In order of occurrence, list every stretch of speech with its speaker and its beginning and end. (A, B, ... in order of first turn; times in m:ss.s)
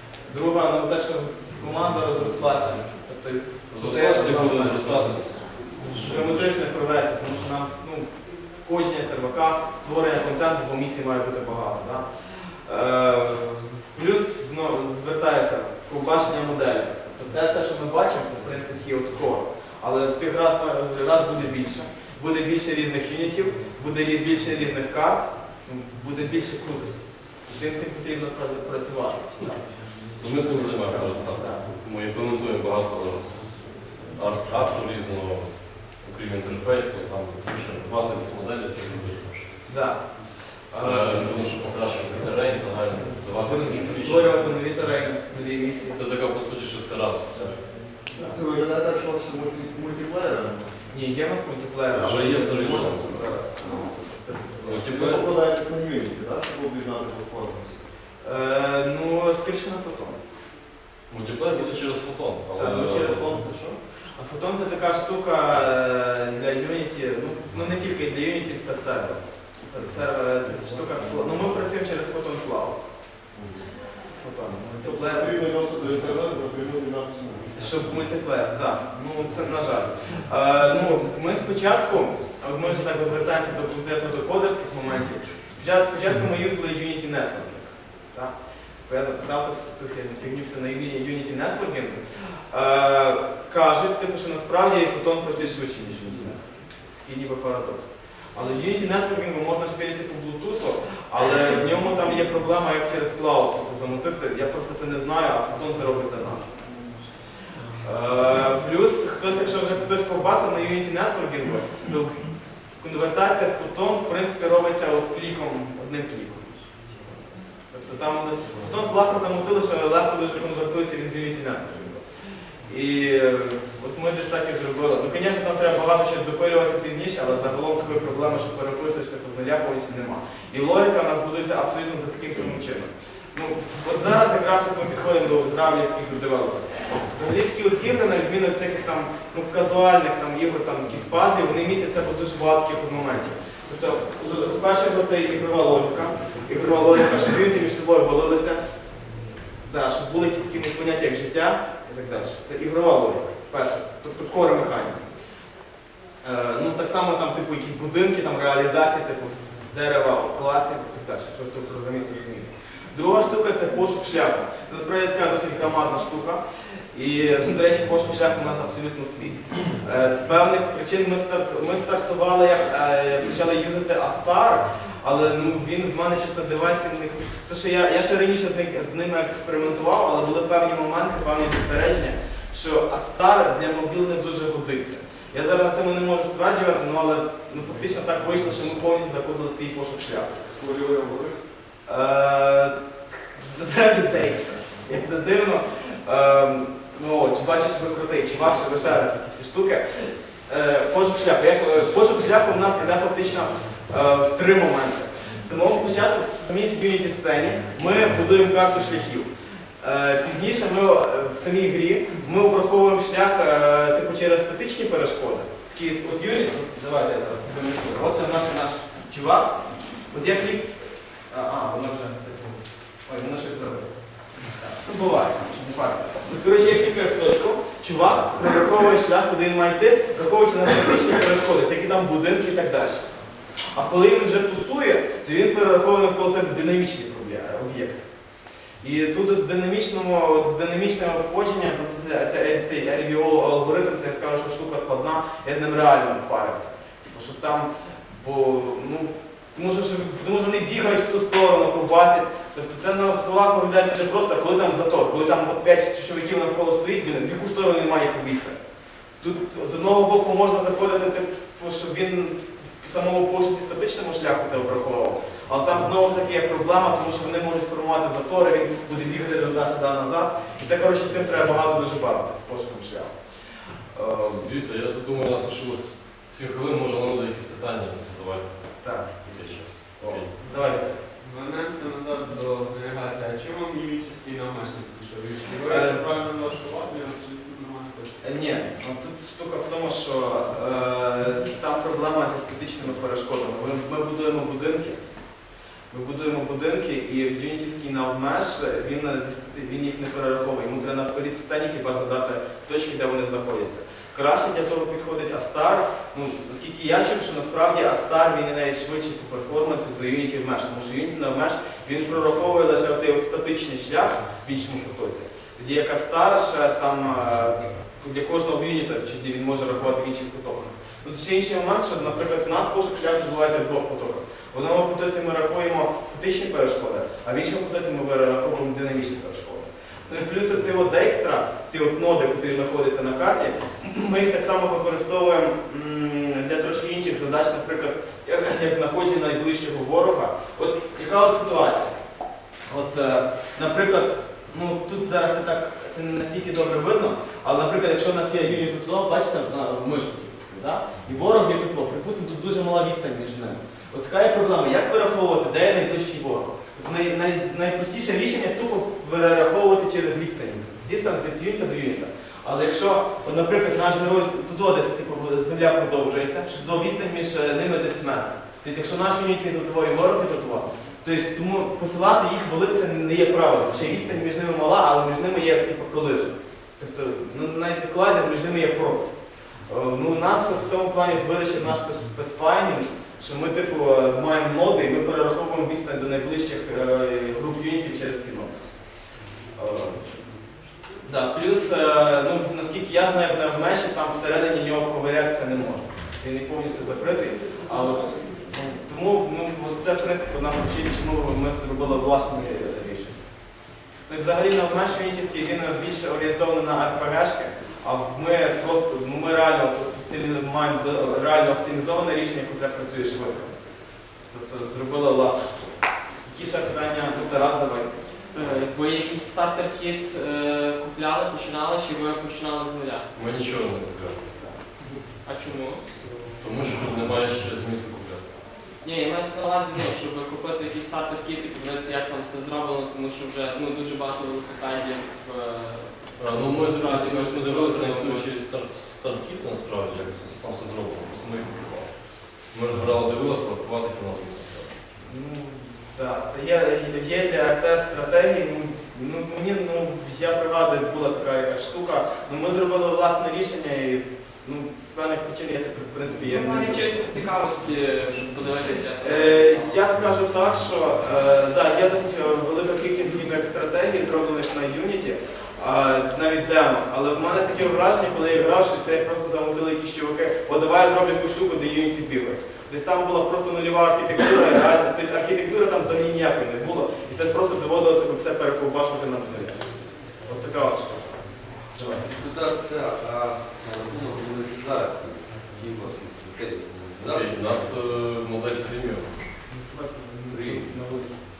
0:00.2-0:31.6 A
0:03.7-0:06.5 B
0:30.2-0:39.6 B
0:39.7-0:41.3 A
0:40.8-0:44.4 B
0:43.4-0:46.0 A
0:45.9-0:47.7 B
0:48.0-0:50.7 C
0:48.1-0:48.4 A
0:50.9-0:54.9 A
0:51.9-0:53.3 B
0:54.6-0:57.9 C
0:54.6-0:55.2 B
0:58.2-1:00.2 A
1:01.1-1:03.4 B
1:02.5-1:03.5 A
1:02.8-1:03.8 C
1:04.1-1:12.9 A
1:10.4-1:11.0 C
1:13.3-1:13.7 C
1:14.1-1:15.4 A
1:14.8-1:17.8 C
1:17.6-1:46.6 A
1:47.8-2:02.0 A
2:02.6-2:28.6 A
2:29.6-2:35.1 A
2:36.2-2:46.4 A
2:46.9-3:10.4 A
3:10.5-3:11.4 C
3:11.8-3:29.3 A
3:29.8-3:44.0 A
3:44.5-3:53.1 A
3:53.7-3:58.2 A
3:58.8-4:18.6 A
4:19.2-4:33.3 A
4:33.9-4:34.5 A
4:34.4-4:40.3 B
4:38.8-4:41.0 A
4:40.4-4:48.2 D
4:45.6-4:46.0 A
4:48.2-6:30.1 A
6:31.0-6:53.5 A
6:54.2-6:57.9 A
6:58.3-7:03.1 E
7:03.1-7:04.3 B
7:05.2-7:06.8 E
7:06.4-7:08.3 B
7:08.8-7:18.4 E
7:16.2-7:24.9 B
7:25.0-7:37.1 A
7:36.2-7:39.8 E
7:39.0-8:02.0 A
8:02.0-8:07.7 F
8:07.0-8:09.1 B
8:09.5-8:11.2 A
8:10.3-8:10.6 F